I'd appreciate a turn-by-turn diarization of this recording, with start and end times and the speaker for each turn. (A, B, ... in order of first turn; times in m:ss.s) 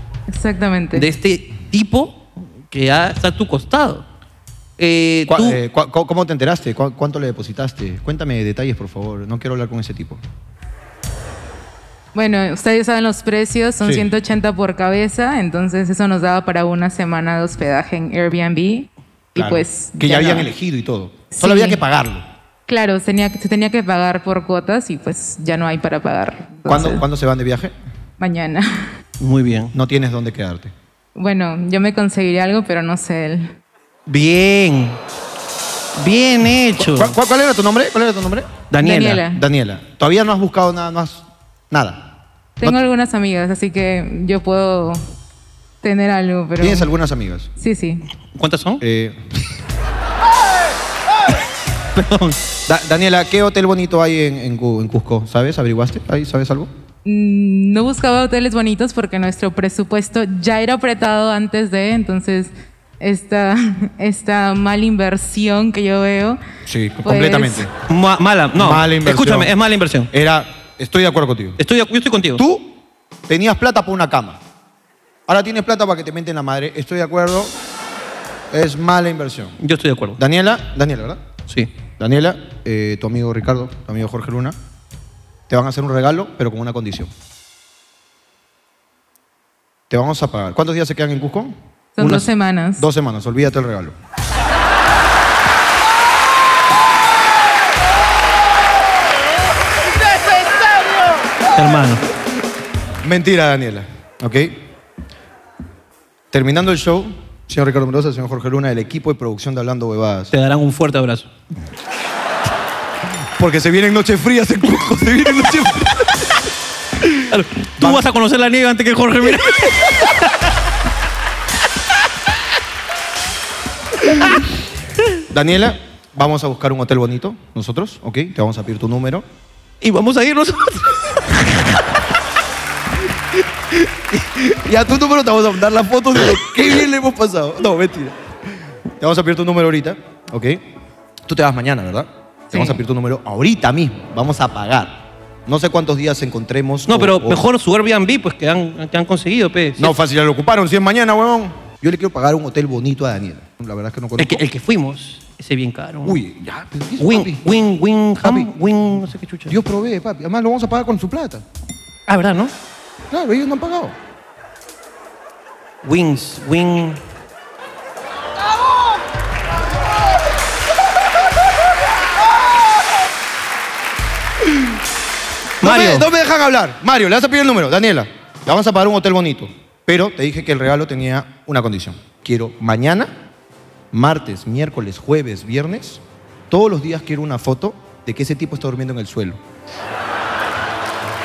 0:00.3-0:01.1 A
0:00.9-0:04.0 B
0:04.8-0:05.6 B
0:05.3-0:10.2 C
0:12.1-0:20.5 A
0:13.8-0:14.1 C
0:19.3-0:22.2 C
0:21.3-0:21.8 A
0:22.7-0:27.0 A
0:26.6-0:27.7 C
0:28.2-0:28.9 A
0:29.2-0:29.7 B
0:29.7-0:30.7 C
0:31.2-0:33.5 A
0:34.1-0:35.0 B
0:36.0-0:37.1 B
0:36.8-0:38.7 C
0:38.7-0:39.2 B
0:38.8-0:39.4 A
0:39.3-0:42.8 C
0:42.6-0:45.0 A
0:45.8-0:46.9 A
0:46.6-0:47.5 C
0:47.6-0:48.0 A
0:48.3-0:48.8 B
0:48.8-0:49.2 C
0:51.9-0:52.4 B
0:52.7-0:56.7 C
0:57.0-1:06.4 A
1:06.6-1:07.7 C
1:07.0-1:07.7 A
1:07.9-1:10.1 B
1:08.6-1:09.5 C
1:10.1-1:11.6 C
1:11.6-1:12.4 B
1:12.4-1:14.4 C
1:15.3-1:17.5 C
1:18.5-1:19.5 C
1:19.6-1:20.2 B
1:20.2-1:21.2 C
1:22.0-1:24.5 C
1:25.5-1:27.1 C
1:29.9-1:31.6 C
1:32.0-1:32.8 A
1:32.8-1:33.9 C
1:41.5-1:42.0 B
1:43.0-1:44.7 C
1:46.3-1:50.3 C
1:50.3-1:51.3 B
1:53.4-1:56.3 C
1:57.3-2:00.1 B
1:57.8-1:58.1 C
2:05.3-2:09.2 C
2:09.8-2:11.6 B
2:14.1-2:18.2 C
2:19.0-2:20.6 C
2:21.2-2:27.4 C
2:26.9-2:29.9 B
2:29.8-2:34.4 C
2:34.2-2:36.2 B
2:36.0-2:37.5 C
2:37.0-2:39.6 B
2:38.2-2:38.5 C
2:39.5-2:41.4 C
2:42.1-2:42.5 B
2:43.1-2:44.0 C
2:45.8-2:47.0 B
2:55.6-3:03.1 C
2:55.6-2:56.1 B
3:03.9-3:09.4 C